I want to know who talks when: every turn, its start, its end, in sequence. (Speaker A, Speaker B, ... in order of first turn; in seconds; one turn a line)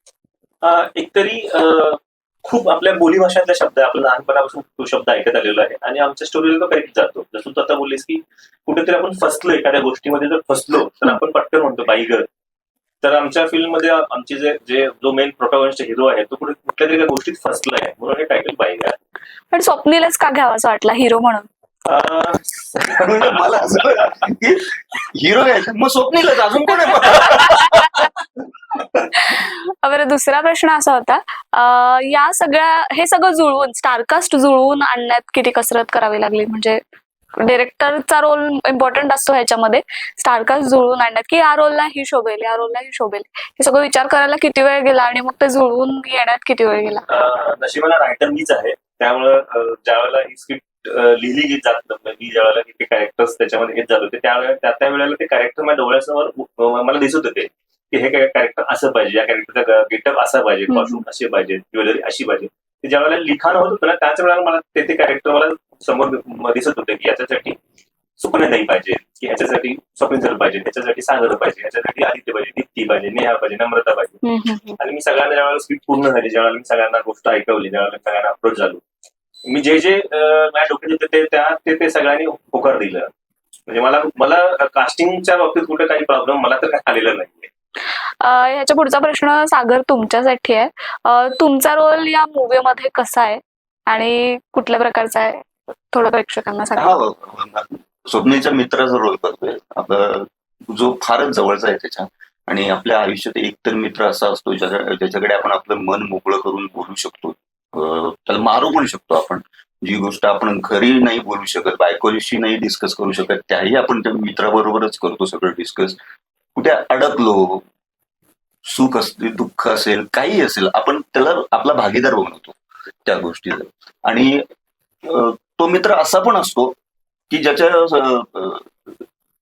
Speaker A: 0.6-12.2
Speaker A: 13.0-18.9
Speaker B: 19.5-21.4
Speaker A: 21.9-23.7
Speaker C: 22.9-28.1
Speaker C: 28.7-29.1
Speaker B: 29.2-36.8
Speaker B: 37.4-47.1
Speaker A: 47.1-67.6
Speaker B: 60.7-61.0
Speaker A: 68.2-74.2
Speaker B: 74.2-74.8
Speaker A: 74.8-78.8
Speaker A: 79.5-83.1
Speaker A: 83.7-87.5
Speaker B: 88.1-97.0
Speaker C: 96.8-116.0
Speaker C: 116.5-117.6
Speaker C: 118.6-124.4
Speaker C: 125.0-126.7
Speaker C: 127.3-128.7